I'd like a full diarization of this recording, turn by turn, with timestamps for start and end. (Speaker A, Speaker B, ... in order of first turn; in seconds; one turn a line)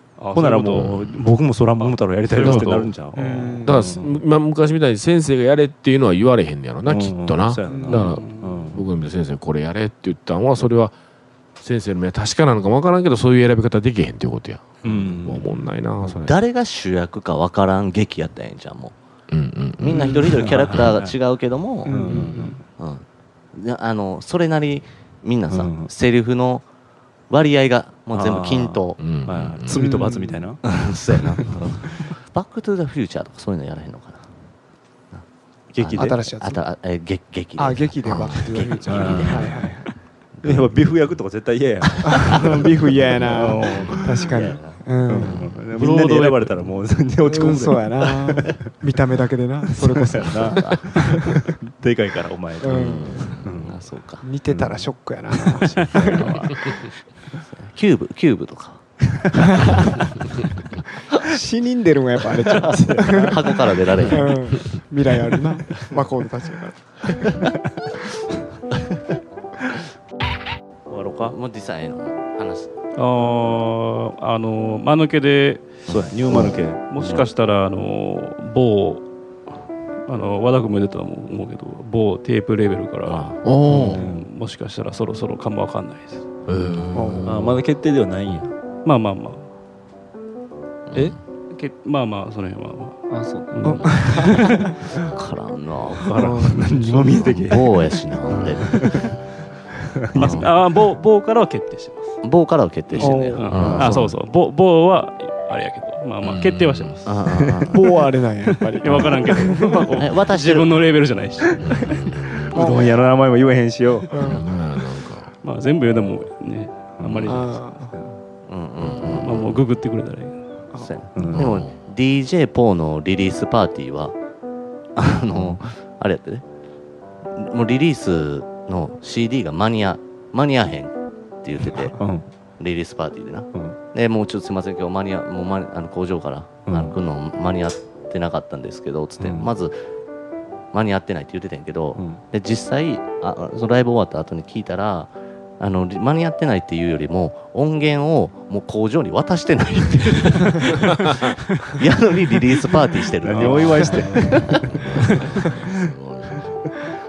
Speaker A: 0.2-0.9
Speaker B: 0.3-4.1
Speaker C: 0.7-1.2
Speaker A: 1.8-2.9
Speaker C: 2.4-2.7
Speaker D: 3.1-4.0
Speaker C: 3.6-10.9
Speaker B: 6.9-8.8
Speaker D: 7.7-8.1
Speaker A: 8.0-8.7
Speaker C: 11.6-16.4
Speaker B: 14.8-15.6
Speaker E: 16.1-18.9
Speaker C: 19.3-20.3
Speaker E: 19.8-26.6
Speaker B: 20.1-21.1
Speaker D: 21.9-22.6
Speaker B: 21.9-22.6
Speaker B: 25.5-25.9
Speaker E: 27.3-29.0
Speaker B: 28.1-30.6
Speaker C: 29.0-29.8
Speaker D: 29.7-30.5
Speaker E: 30.6-34.3
Speaker B: 31.3-32.1
Speaker B: 35.7-36.2
Speaker E: 35.8-39.7
Speaker D: 35.9-36.6
Speaker D: 37.6-39.9
Speaker C: 38.0-38.5
Speaker B: 38.9-39.7
Speaker E: 40.4-40.7
Speaker B: 40.4-44.3
Speaker E: 42.0-42.6
Speaker D: 42.1-45.4
Speaker E: 44.1-44.8
Speaker B: 45.1-48.6
Speaker A: 45.7-46.5
Speaker D: 47.3-51.4
Speaker B: 49.7-53.8
Speaker E: 50.4-51.3
Speaker D: 52.6-53.2
Speaker E: 52.7-54.2
Speaker D: 54.2-56.7
Speaker B: 54.5-56.5
Speaker E: 55.9-56.5
Speaker E: 57.4-59.1
Speaker D: 59.5-59.9
Speaker E: 59.7-60.1
Speaker D: 61.2-67.4
Speaker B: 62.5-64.2
Speaker E: 62.5-64.7
Speaker B: 67.4-67.9
Speaker B: 70.9-71.4
Speaker E: 71.2-72.7
Speaker A: 73.0-75.9
Speaker B: 75.9-76.8
Speaker E: 75.9-77.2
Speaker A: 76.8-79.0
Speaker A: 80.1-86.2
Speaker E: 83.1-83.4
Speaker C: 83.4-84.0
Speaker B: 83.7-84.3
Speaker C: 86.5-87.6
Speaker D: 86.9-87.3
Speaker B: 87.2-88.5
Speaker A: 88.8-89.5
Speaker A: 91.0-94.7
Speaker B: 93.1-94.3
Speaker D: 93.6-94.9
Speaker E: 94.9-96.4
Speaker A: 96.0-97.3
Speaker D: 96.2-96.6
Speaker B: 96.3-98.0
Speaker E: 97.2-99.2
Speaker C: 98.3-98.6
Speaker B: 98.7-99.1
Speaker A: 98.7-99.0
Speaker B: 100.1-100.5
Speaker E: 100.1-100.5
Speaker A: 100.2-102.2
Speaker E: 102.2-104.1
Speaker A: 102.9-107.3
Speaker D: 103.0-103.5
Speaker C: 103.4-104.2
Speaker C: 106.2-107.1
Speaker E: 107.1-107.9
Speaker B: 107.3-108.0
Speaker D: 107.7-109.9
Speaker A: 108.8-112.2
Speaker E: 109.9-110.9
Speaker C: 111.6-112.6
Speaker D: 112.5-112.9
Speaker B: 112.5-114.1
Speaker D: 114.1-114.4
Speaker C: 114.2-115.3
Speaker A: 115.4-117.6
Speaker B: 117.0-118.1
Speaker D: 117.3-118.0
Speaker E: 118.5-119.6
Speaker C: 118.8-119.6
Speaker A: 119.0-120.4
Speaker E: 120.8-124.2
Speaker B: 121.1-121.5
Speaker C: 121.3-121.8
Speaker E: 125.0-126.5
Speaker B: 125.3-125.6
Speaker E: 127.3-139.8
Speaker B: 131.6-132.3
Speaker B: 136.7-137.0
Speaker B: 139.2-139.5
Speaker E: 140.7-154.8
Speaker B: 141.9-142.2
Speaker B: 153.2-155.5
Speaker A: 153.3-155.3
Speaker C: 154.7-156.7